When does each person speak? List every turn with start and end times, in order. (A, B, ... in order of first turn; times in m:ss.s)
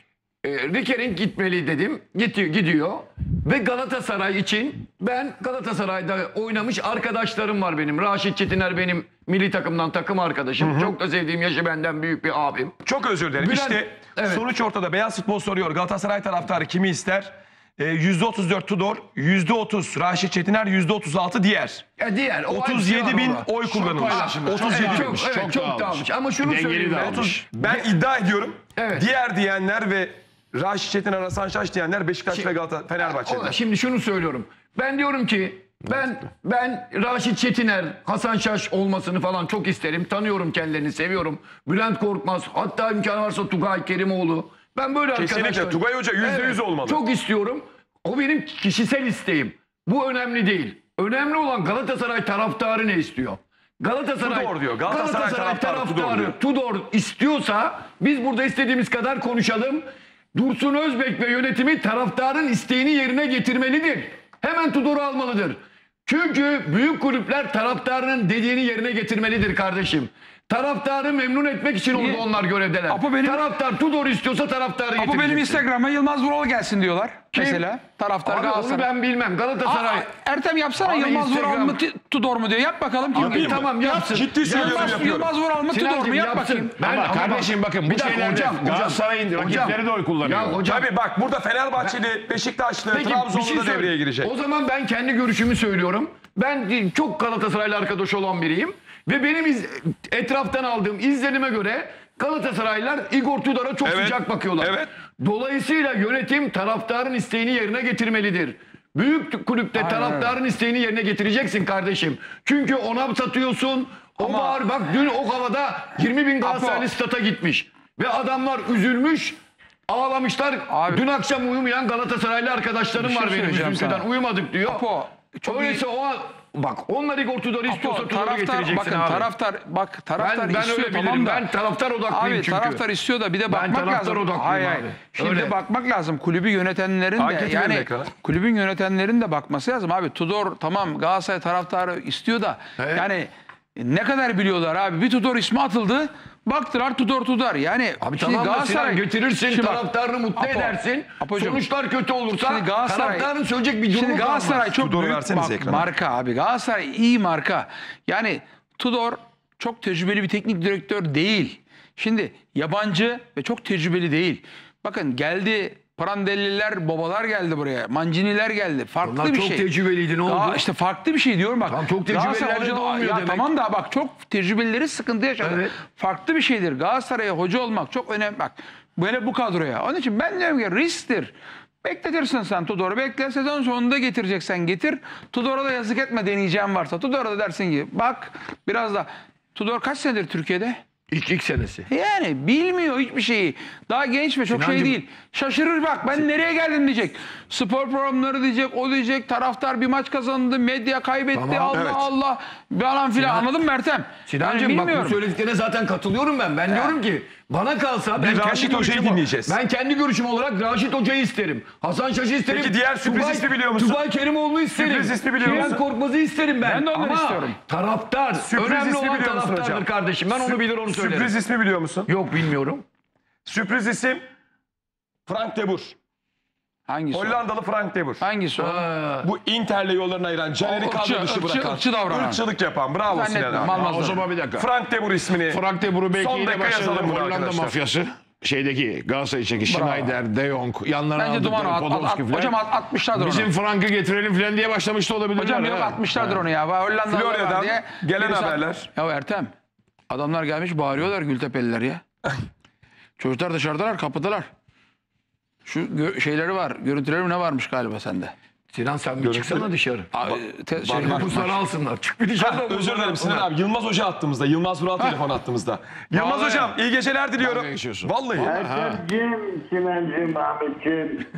0:00.4-0:12.8 A
0:10.6-0:10.9 B
0:12.8-0:21.8 B
0:13.4-0:14.4 A
0:22.0-0:23.5 A
0:22.5-0:25.2 B
0:23.6-0:27.4 C
0:24.0-0:27.9 A
0:27.1-0:33.6 B
0:28.7-0:29.0 A
0:32.3-0:59.8 A
0:45.1-0:47.0 B
0:54.2-0:56.4 B
1:00.3-1:15.6 A
1:11.9-1:12.2 D
1:12.9-1:13.4 D
1:15.0-1:18.9 D
1:17.3-1:17.6 A
1:18.2-1:20.1 A
1:19.6-1:26.7 D
1:20.8-1:21.8 A
1:23.1-1:25.1 A
1:23.2-1:25.3 B
1:25.7-1:30.9 A
1:26.8-1:30.6 C
1:30.6-1:34.3 B
1:32.9-1:59.4 A
1:43.8-1:44.9 B
1:49.7-1:50.4 D
1:54.2-1:54.6 D
1:56.4-1:56.9 D
1:59.9-2:04.8 A
2:00.7-2:01.0 D
2:03.0-2:04.0 D
2:04.6-2:05.8 D
2:05.4-2:09.3 A
2:07.7-2:11.4 D
2:10.2-2:12.8 A
2:12.1-2:31.6 D
2:13.5-2:15.6 A
2:17.2-2:18.1 B
2:22.8-2:23.1 A
2:28.0-2:34.7 A
2:32.4-2:33.3 D
2:33.9-2:49.7 D
2:34.7-2:35.9 B
2:49.0-2:50.6 A
2:50.2-3:10.8 D
2:51.6-2:53.5 A
2:55.4-2:55.7 A
3:11.1-3:11.9 A
3:11.9-3:25.2 D
3:14.5-3:15.0 A
3:21.3-3:21.9 A
3:21.7-3:22.0 B
3:23.2-3:23.5 A
3:24.3-3:41.4 A
3:26.7-3:27.0 D
3:28.2-3:29.6 B
3:32.5-3:34.0 B
3:34.8-3:35.8 B
3:35.4-3:35.7 D
3:36.6-3:37.6 D
3:38.4-3:42.1 B
3:42.1-3:42.8 A
3:43.4-3:44.2 B
3:45.2-3:46.0 B
3:46.9-3:47.4 D
3:47.1-3:48.2 B
3:48.2-3:48.8 D
3:48.6-3:49.3 A
3:49.2-3:53.8 B
3:50.6-3:52.4 D
3:53.1-3:54.2 D
3:53.7-3:54.7 C
3:54.5-3:55.6 B
3:55.5-4:02.6 C
3:56.1-3:57.8 B
3:59.6-4:00.2 D
4:01.2-4:03.5 D
4:03.1-4:06.4 C
4:05.4-4:09.5 D
4:07.1-4:08.9 B
4:10.1-4:12.0 D
4:13.2-4:14.5 D
4:15.6-4:18.3 D
4:18.7-4:20.1 A
4:19.2-4:19.7 B
4:20.1-4:21.6 D
4:20.2-4:21.2 B
4:20.9-4:23.5 A
4:22.4-4:28.5 B
4:27.4-4:29.0 C
4:28.4-4:31.2 E